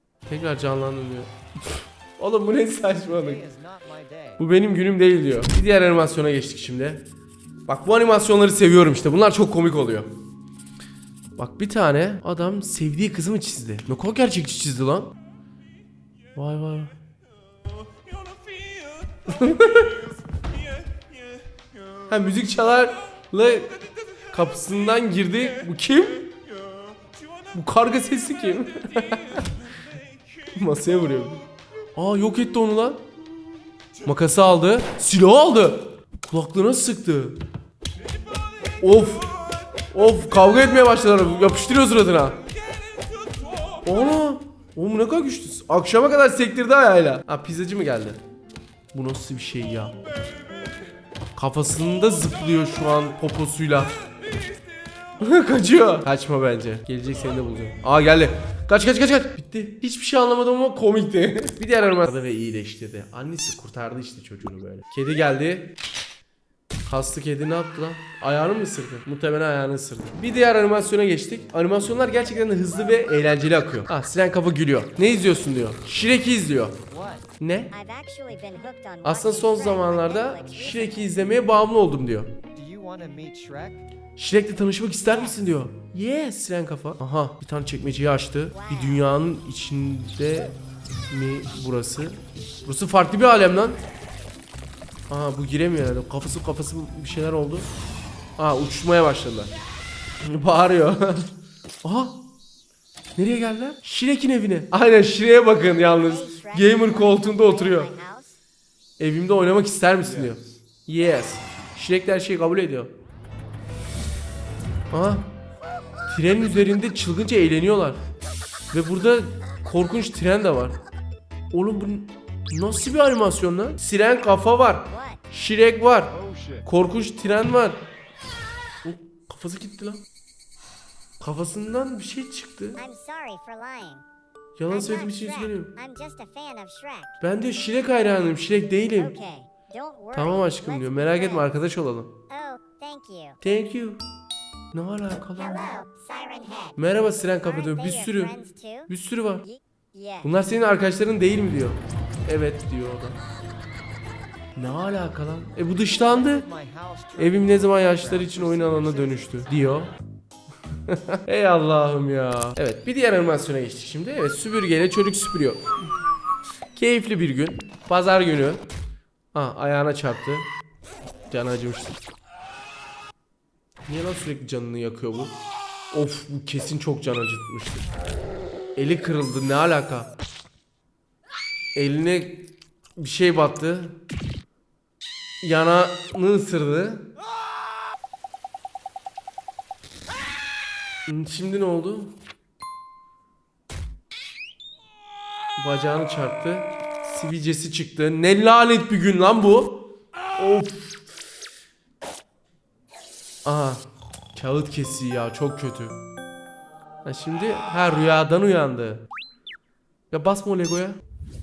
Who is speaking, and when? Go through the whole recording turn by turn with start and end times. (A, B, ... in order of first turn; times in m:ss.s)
0:00.2-0:03.5 A
0:03.4-0:04.1 B
0:04.4-0:07.0 A
0:07.7-0:10.1 A
0:11.4-0:15.1 A
0:16.3-0:16.9 A
0:19.2-0:20.0 A
0:22.0-0:23.8 A
0:24.3-0:26.4 A
0:27.5-0:29.6 A
0:30.5-0:33.0 A
0:34.0-0:37.4 A
0:38.8-0:39.3 A
0:39.9-0:42.4 A
0:43.8-0:48.2 A
0:48.9-0:50.0 A
0:51.3-0:53.9 A
0:55.2-1:05.8 A
1:06.8-1:16.8 A
1:17.4-1:17.7 A
1:17.7-1:21.3 C
1:19.0-1:22.3 A
1:22.6-1:23.8 B
1:24.2-1:33.8 A
1:28.5-1:29.0 C
1:35.1-1:37.7 A
1:38.4-1:39.5 A
1:40.2-1:41.3 A
1:41.8-1:42.2 A
1:43.2-1:47.9 A
1:46.0-1:48.3 C
1:49.0-1:52.9 A
1:54.9-1:55.2 A
1:56.1-1:58.0 A
1:58.7-2:00.8 A
2:01.5-2:07.8 A
2:04.9-2:05.2 C
2:08.8-2:10.0 A
2:11.2-2:12.8 A
2:12.8-2:14.0 C
2:14.6-2:15.7 A
2:14.7-2:17.2 C
2:17.2-2:19.1 A
2:19.0-2:21.4 C
2:20.1-2:22.1 A
2:22.3-2:23.4 C
2:23.4-2:24.0 A
2:24.7-2:25.7 A
2:25.5-2:26.7 C
2:26.8-2:28.4 A
2:27.4-2:28.9 C
2:28.9-2:29.5 A
2:29.5-2:30.2 C
2:30.2-2:33.2 A
2:34.5-2:36.5 A
2:36.4-2:38.2 B
2:37.2-2:39.9 A
2:40.8-2:45.6 A
2:46.7-2:48.6 A
2:49.3-2:50.5 A
2:51.3-2:52.0 A
2:53.9-2:55.3 A
2:55.9-2:57.9 A
2:58.8-3:00.1 A
3:01.7-3:02.4 A
3:03.0-3:04.0 A
3:05.4-3:07.1 A
3:11.0-3:12.2 A
3:15.6-3:21.1 A
3:23.4-3:26.0 A
3:27.0-3:29.0 A
3:30.1-3:31.0 A